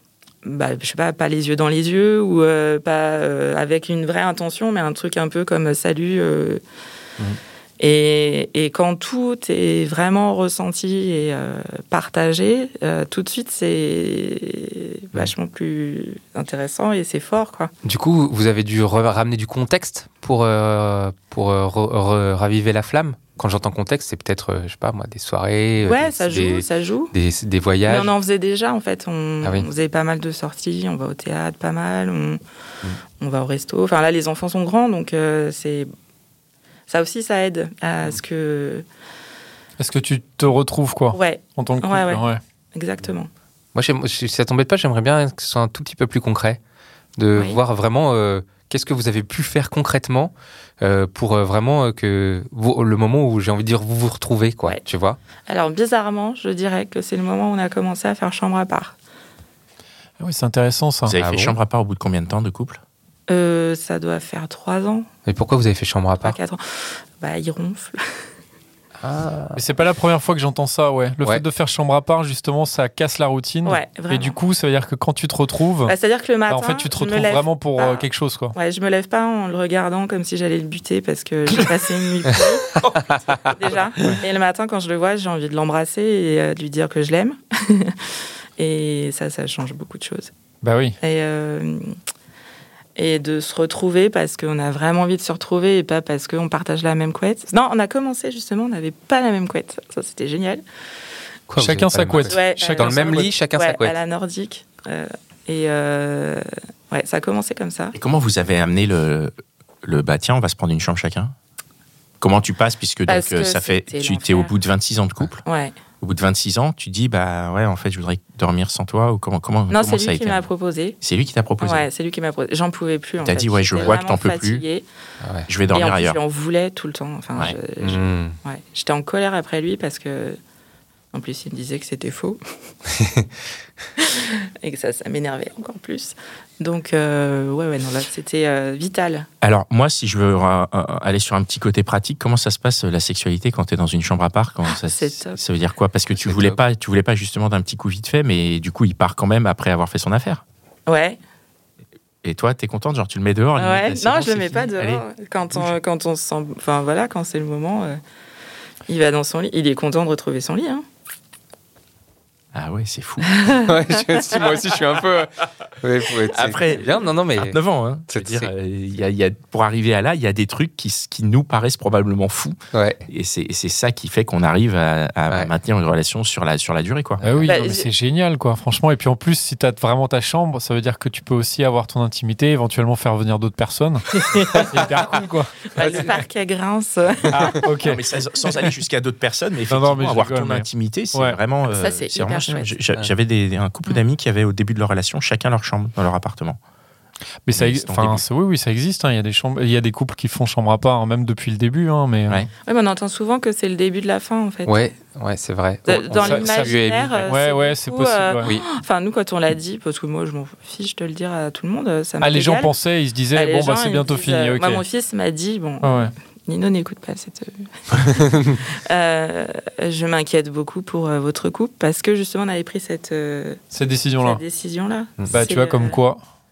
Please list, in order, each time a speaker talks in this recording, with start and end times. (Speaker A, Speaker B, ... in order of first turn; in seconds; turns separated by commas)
Speaker A: 0.4-6.6, Speaker A: 7.8-17.7, Speaker B: 17.8-28.1, Speaker A: 25.8-27.1, Speaker A: 27.9-32.4, Speaker B: 29.4-29.7, Speaker A: 33.2-35.9, Speaker A: 36.9-38.9, Speaker C: 39.8-42.4, Speaker A: 41.1-43.3, Speaker B: 43.8-46.6, Speaker B: 47.2-55.2, Speaker A: 55.5-59.0, Speaker C: 60.2-61.2, Speaker D: 61.1-62.8, Speaker B: 61.2-61.6, Speaker A: 63.3-65.1, Speaker B: 65.3-66.4, Speaker A: 66.2-68.0, Speaker B: 69.0-69.6, Speaker C: 69.5-76.0, Speaker A: 73.7-74.4, Speaker A: 75.9-90.3, Speaker C: 76.5-78.5, Speaker B: 82.8-83.5, Speaker C: 90.6-91.0, Speaker A: 91.0-92.0, Speaker A: 93.0-100.6, Speaker B: 101.5-104.0, Speaker C: 101.6-103.3, Speaker A: 102.2-108.0, Speaker D: 107.9-109.3, Speaker D: 109.8-111.3, Speaker D: 112.2-115.4, Speaker A: 113.1-114.5, Speaker A: 115.5-115.8, Speaker D: 116.0-120.5, Speaker A: 119.7-121.0, Speaker D: 121.0-121.9, Speaker A: 121.6-124.9, Speaker D: 123.2-124.6, Speaker B: 125.2-125.5, Speaker D: 125.5-126.2, Speaker A: 125.7-130.4, Speaker B: 127.8-128.4, Speaker A: 131.1-132.4, Speaker B: 132.9-133.3, Speaker A: 134.0-139.3, Speaker D: 139.4-150.4, Speaker A: 144.8-145.4, Speaker B: 146.2-146.6, Speaker A: 150.9-151.2, Speaker D: 152.2-155.7, Speaker A: 153.6-158.0, Speaker A: 158.9-160.8, Speaker D: 162.5-163.4, Speaker A: 163.4-163.7, Speaker B: 163.6-168.5, Speaker D: 166.3-172.6, Speaker B: 172.7-173.0, Speaker D: 173.1-177.2, Speaker C: 177.2-186.0, Speaker A: 177.5-177.9, Speaker A: 185.7-187.7, Speaker B: 185.8-186.2, Speaker C: 187.3-188.0, Speaker D: 187.8-196.6, Speaker C: 189.7-191.4, Speaker A: 191.7-192.8, Speaker C: 197.4-202.5, Speaker D: 197.5-198.2, Speaker A: 202.7-204.9, Speaker B: 204.7-207.3, Speaker A: 205.9-212.7, Speaker C: 206.2-206.8, Speaker C: 207.3-208.5, Speaker C: 212.2-214.8, Speaker A: 213.3-223.6, Speaker C: 215.8-216.1, Speaker C: 223.7-224.4, Speaker A: 224.2-226.0, Speaker C: 225.3-226.2